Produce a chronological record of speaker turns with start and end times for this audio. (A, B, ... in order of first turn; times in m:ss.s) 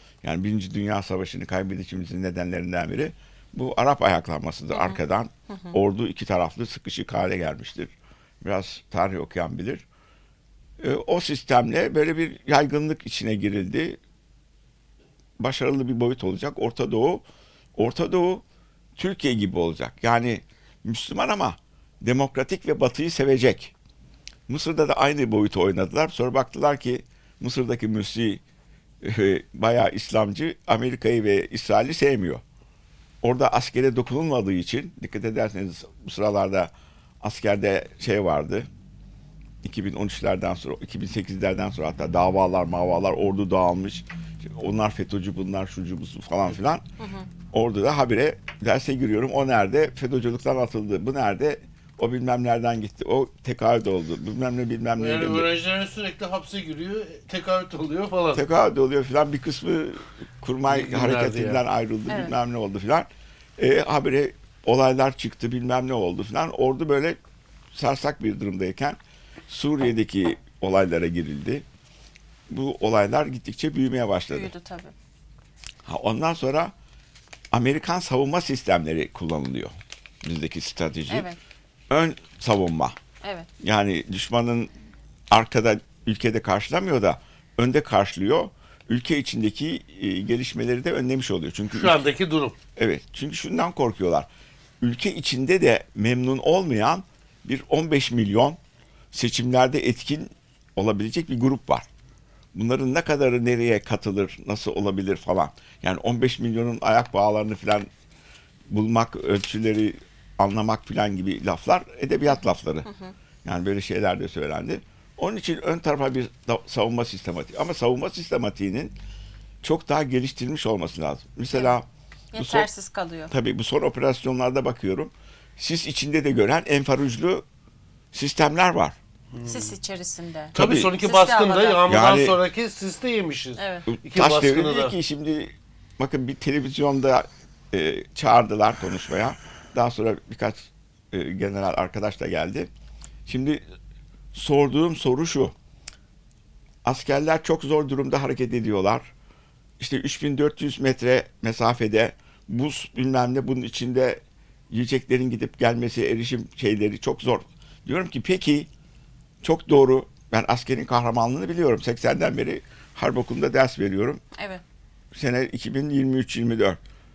0:00.2-0:09.8 A
0:04.7-0:05.0 B
0:10.8-0:14.0 A
0:15.4-0:17.2 A
0:17.8-0:18.4 A
0:19.0-0:23.7 A
0:24.5-0:28.4 A
0:29.0-0:32.4 A
0:33.2-0:38.7 A
0:39.6-0:46.8 A
0:47.0-0:47.3 B
0:47.5-0:55.5 A
0:55.0-0:58.4 C
0:58.3-1:07.2 A
1:00.7-1:01.6 C
1:02.1-1:02.3 B
1:07.7-1:11.6 A
1:12.5-1:14.5 A
1:14.3-1:14.9 B
1:15.8-1:16.7 A
1:17.5-1:21.3 A
1:21.1-1:21.4 B
1:21.9-1:22.9 A
1:23.2-1:23.5 B
1:23.6-1:24.7 A
1:25.3-1:32.0 A
1:31.7-1:32.6 C
1:32.8-1:34.3 A
1:34.8-1:38.6 A
1:39.1-1:41.9 A
1:42.5-1:47.9 A
1:48.7-1:52.9 A
1:52.9-1:53.1 B
1:53.4-1:58.9 A
1:59.6-2:01.8 A
2:02.3-2:03.3 B
2:02.4-2:02.7 A
2:03.3-2:07.4 A
2:08.1-2:09.0 A
2:09.3-2:09.8 C
2:09.4-2:12.0 B
2:10.5-2:10.9 A
2:10.5-2:15.0 C
2:11.9-2:12.4 A
2:13.6-2:13.9 B
2:13.9-2:22.7 A
2:23.2-2:23.6 A
2:24.3-2:25.5 A
2:26.8-2:29.1 A
2:29.8-2:38.7 A
2:39.4-2:44.2 A
2:44.3-2:44.6 B
2:45.1-2:46.8 A